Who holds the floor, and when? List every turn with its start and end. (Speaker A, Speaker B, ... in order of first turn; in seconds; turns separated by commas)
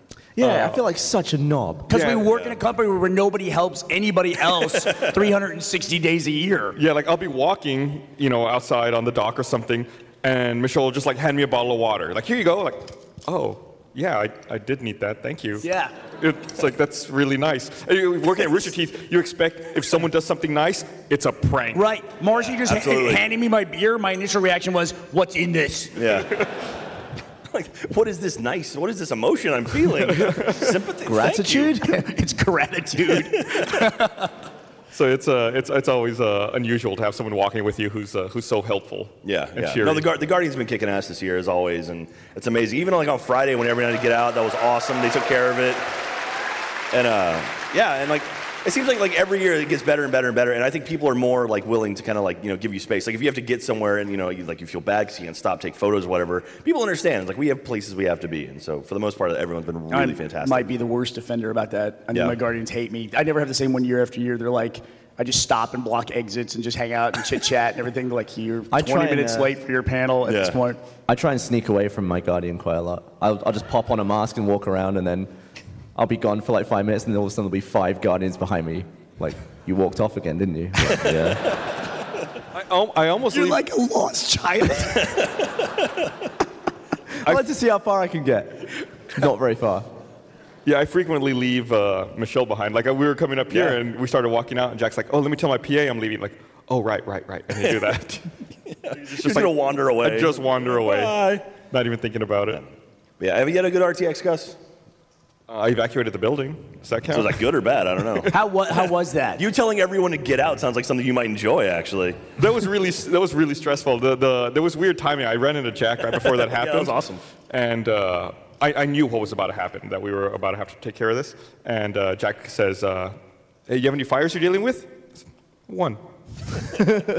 Speaker A: 0.3-1.9, Speaker B: 0.4-0.8, Speaker C: 1.9-6.8, Speaker B: 1.9-2.4, Speaker B: 6.8-15.6, Speaker C: 15.6-15.9, Speaker B: 16.2-21.9, Speaker C: 21.7-26.0, Speaker D: 22.6-23.2, Speaker D: 25.9-26.4, Speaker D: 27.5-31.8, Speaker B: 30.1-30.6, Speaker A: 31.1-32.0, Speaker C: 31.8-34.3, Speaker D: 33.1-33.6, Speaker B: 34.9-40.1, Speaker D: 39.2-45.9, Speaker D: 46.9-60.7, Speaker C: 59.9-70.8, Speaker D: 62.1-62.4, Speaker A: 68.7-69.5, Speaker D: 70.2-70.6, Speaker A: 71.1-75.3, Speaker A: 76.0-81.5, Speaker B: 82.5-83.6, Speaker C: 83.3-85.1, Speaker A: 87.2-89.8, Speaker B: 90.6-98.3, Speaker D: 93.5-93.8, Speaker D: 97.5-97.9, Speaker D: 98.7-101.4, Speaker B: 98.9-102.6, Speaker D: 103.2-104.5, Speaker B: 105.5-107.4, Speaker D: 107.1-108.3, Speaker C: 108.3-109.4, Speaker D: 109.4-112.3, Speaker B: 112.3-117.0, Speaker D: 116.1-117.2, Speaker B: 117.5-123.2, Speaker B: 123.7-124.9, Speaker B: 125.7-126.0